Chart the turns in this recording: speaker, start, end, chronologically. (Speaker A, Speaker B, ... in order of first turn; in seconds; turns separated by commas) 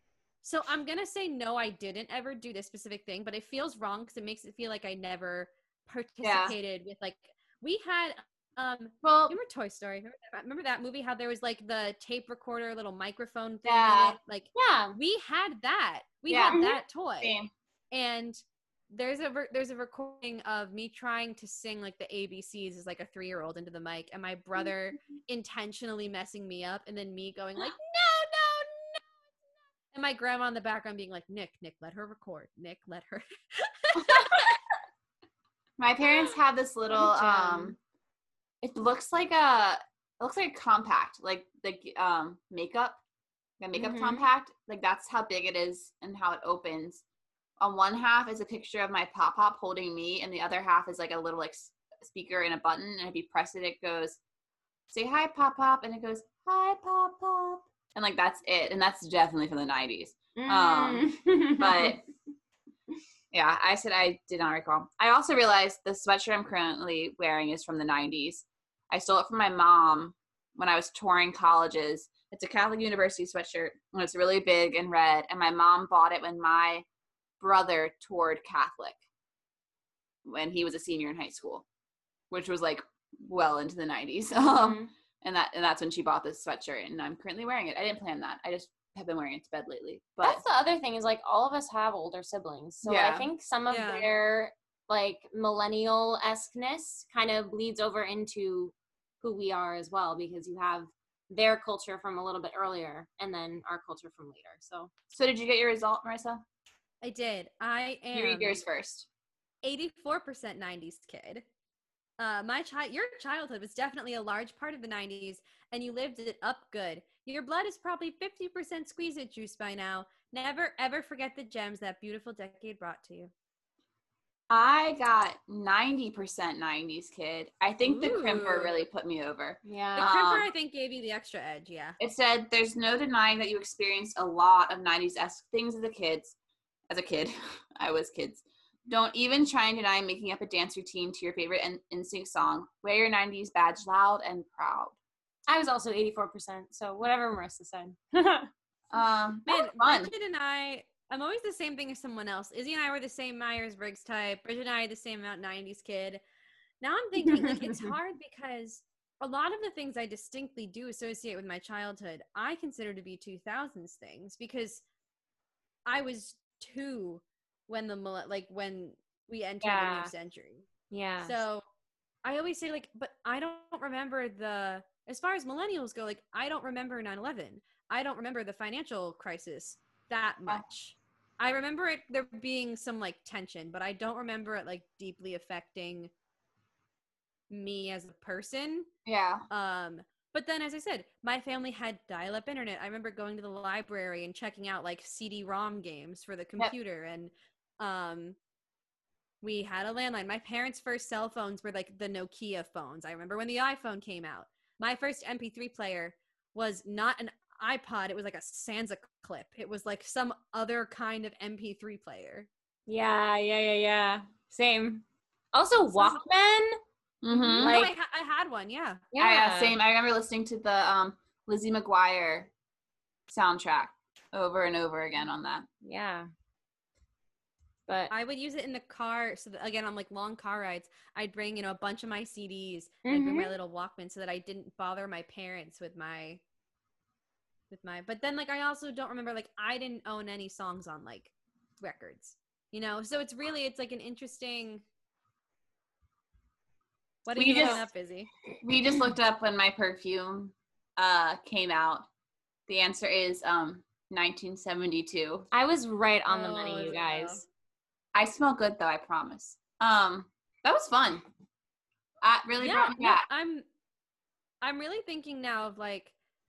Speaker A: 0.4-17.3, Speaker B: 6.2-6.6, Speaker B: 9.0-9.3, Speaker B: 13.7-14.2, Speaker C: 14.5-15.0, Speaker B: 16.3-16.6, Speaker C: 16.4-16.8, Speaker B: 17.2-17.5, Speaker A: 17.9-29.1, Speaker A: 29.9-34.5, Speaker B: 35.8-37.8, Speaker A: 36.9-37.8, Speaker B: 38.6-43.0, Speaker B: 43.6-47.0, Speaker C: 43.8-44.2, Speaker B: 47.6-54.2, Speaker B: 54.9-62.0, Speaker C: 60.4-62.0, Speaker B: 63.3-76.9, Speaker B: 77.4-79.0, Speaker B: 80.2-81.7, Speaker B: 82.3-90.4, Speaker C: 84.5-84.9, Speaker C: 90.2-104.9, Speaker B: 92.8-93.3, Speaker A: 93.7-94.1, Speaker B: 105.1-106.4, Speaker A: 107.0-108.6, Speaker B: 108.1-109.1, Speaker A: 109.6-111.5, Speaker A: 112.2-123.3, Speaker B: 124.5-130.5, Speaker A: 127.8-128.8, Speaker C: 129.7-130.1, Speaker A: 130.0-132.0, Speaker B: 132.0-136.4, Speaker B: 136.9-145.0, Speaker C: 145.5-148.5, Speaker B: 148.9-150.1, Speaker A: 149.5-156.2, Speaker A: 156.8-164.8, Speaker C: 157.2-157.9, Speaker A: 165.9-170.7, Speaker C: 169.6-170.1, Speaker C: 170.9-171.4, Speaker A: 171.2-171.6, Speaker A: 172.2-186.1, Speaker A: 187.5-188.9, Speaker B: 189.1-189.5, Speaker A: 189.5-198.4, Speaker A: 199.4-212.5, Speaker C: 212.9-216.8, Speaker A: 215.9-216.2, Speaker B: 217.2-217.9, Speaker A: 217.3-219.0, Speaker C: 217.6-217.9, Speaker C: 219.1-219.8, Speaker B: 219.2-222.5, Speaker B: 223.3-225.7, Speaker C: 225.8-226.3, Speaker A: 228.1-236.4, Speaker C: 233.1-233.6, Speaker A: 237.7-244.8, Speaker A: 247.2-248.3, Speaker B: 247.4-247.8, Speaker B: 248.6-252.1, Speaker B: 252.7-255.5, Speaker C: 255.5-257.4, Speaker A: 256.3-257.4, Speaker B: 258.1-261.2, Speaker B: 262.2-263.3, Speaker A: 262.6-263.7, Speaker A: 264.6-266.1